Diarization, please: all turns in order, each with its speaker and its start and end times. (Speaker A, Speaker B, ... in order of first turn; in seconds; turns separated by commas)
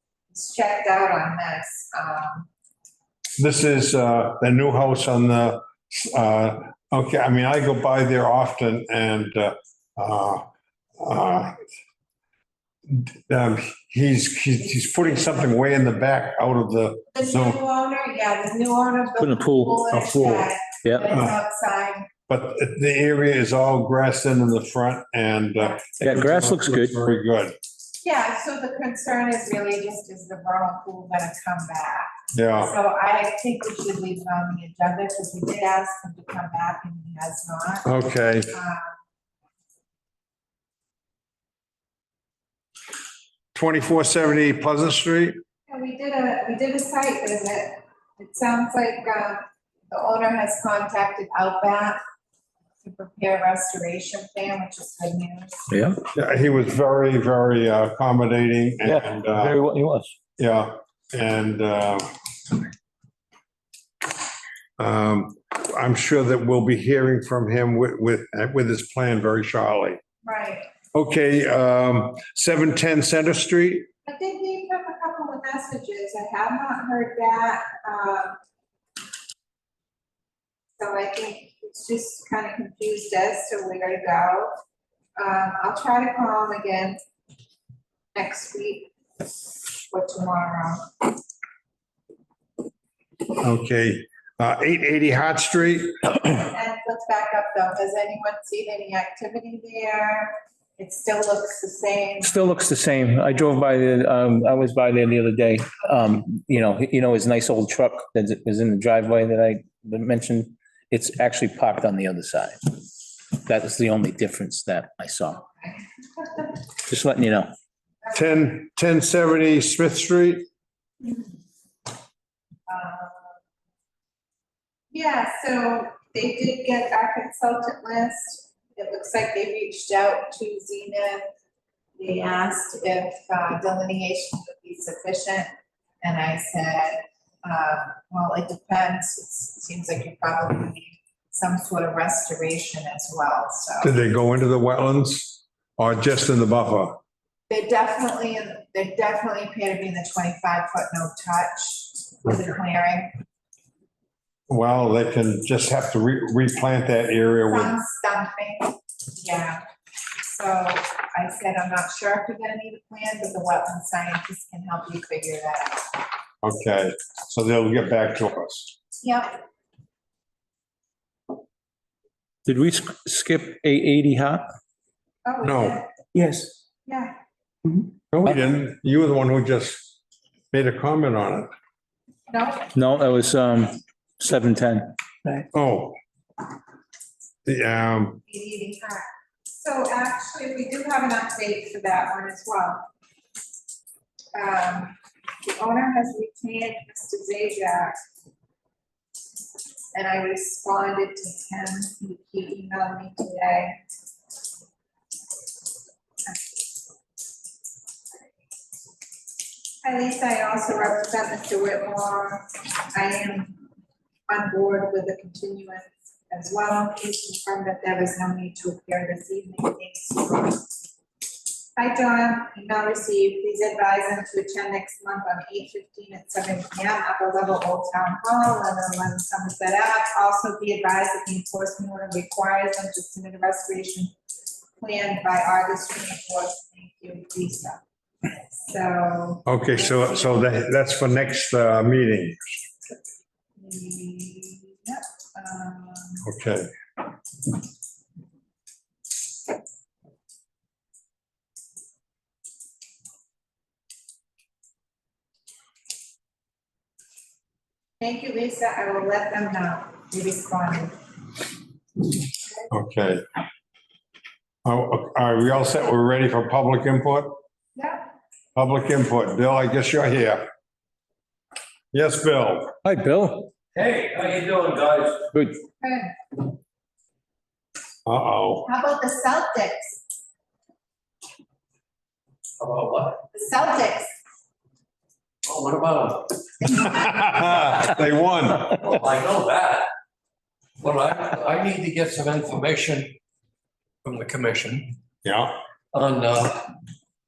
Speaker A: 0.3-2.5, Speaker B: 3.4-10.4, Speaker B: 11.0-11.7, Speaker B: 12.9-17.6, Speaker A: 17.1-22.1, Speaker C: 19.2-21.1, Speaker B: 21.1-21.4, Speaker B: 22.3-27.5, Speaker C: 26.0-27.0, Speaker A: 28.0-38.0, Speaker B: 32.3-32.7, Speaker B: 37.8-38.6, Speaker A: 38.5-39.0, Speaker B: 43.5-45.4, Speaker A: 45.7-52.0, Speaker A: 52.8-55.7, Speaker C: 55.7-56.0, Speaker B: 56.1-59.5, Speaker C: 58.8-60.1, Speaker B: 60.4-62.1, Speaker B: 64.8-70.0, Speaker A: 70.2-70.7, Speaker B: 70.9-73.9, Speaker A: 74.0-78.4, Speaker A: 80.8-84.5, Speaker A: 85.2-87.0, Speaker A: 88.1-88.9, Speaker A: 89.9-91.0, Speaker B: 93.4-96.1, Speaker A: 96.4-102.3, Speaker C: 102.2-112.8, Speaker C: 113.3-115.4, Speaker A: 115.3-116.5, Speaker C: 116.9-117.5, Speaker B: 118.1-120.5, Speaker A: 121.0-121.3, Speaker A: 122.7-123.3, Speaker A: 124.9-131.3, Speaker A: 132.0-135.5, Speaker A: 136.0-143.9, Speaker B: 143.8-147.0, Speaker A: 147.5-153.1, Speaker B: 154.5-157.7, Speaker A: 157.5-159.6, Speaker A: 160.2-166.0, Speaker B: 166.4-168.7, Speaker A: 169.0-169.4, Speaker C: 172.4-174.5, Speaker A: 175.2-175.9, Speaker B: 175.4-175.8, Speaker C: 176.1-176.5, Speaker A: 176.8-177.1, Speaker B: 178.1-179.9, Speaker B: 180.5-181.5, Speaker A: 182.3-182.7, Speaker C: 182.7-185.4, Speaker B: 185.5-186.0, Speaker B: 187.4-188.2, Speaker A: 188.3-192.8, Speaker A: 194.3-198.0, Speaker A: 199.9-203.8, Speaker A: 209.8-213.6, Speaker A: 214.3-220.7, Speaker A: 221.8-234.1, Speaker A: 234.8-237.8, Speaker A: 238.5-240.3, Speaker B: 239.4-242.6, Speaker A: 243.6-246.3, Speaker B: 246.2-246.7, Speaker A: 258.0-260.9, Speaker B: 262.7-263.2, Speaker B: 264.6-267.4, Speaker A: 267.8-268.0, Speaker B: 268.6-270.4, Speaker B: 271.9-272.7, Speaker C: 272.8-273.5, Speaker D: 273.7-275.3, Speaker A: 275.8-276.1, Speaker B: 278.1-278.7, Speaker A: 278.6-280.0, Speaker D: 282.6-283.2, Speaker A: 283.3-284.1, Speaker D: 285.4-286.8, Speaker B: 286.7-288.8, Speaker D: 288.7-289.9, Speaker D: 290.8-293.2, Speaker D: 294.0-294.9, Speaker B: 295.2-295.6, Speaker D: 295.9-296.7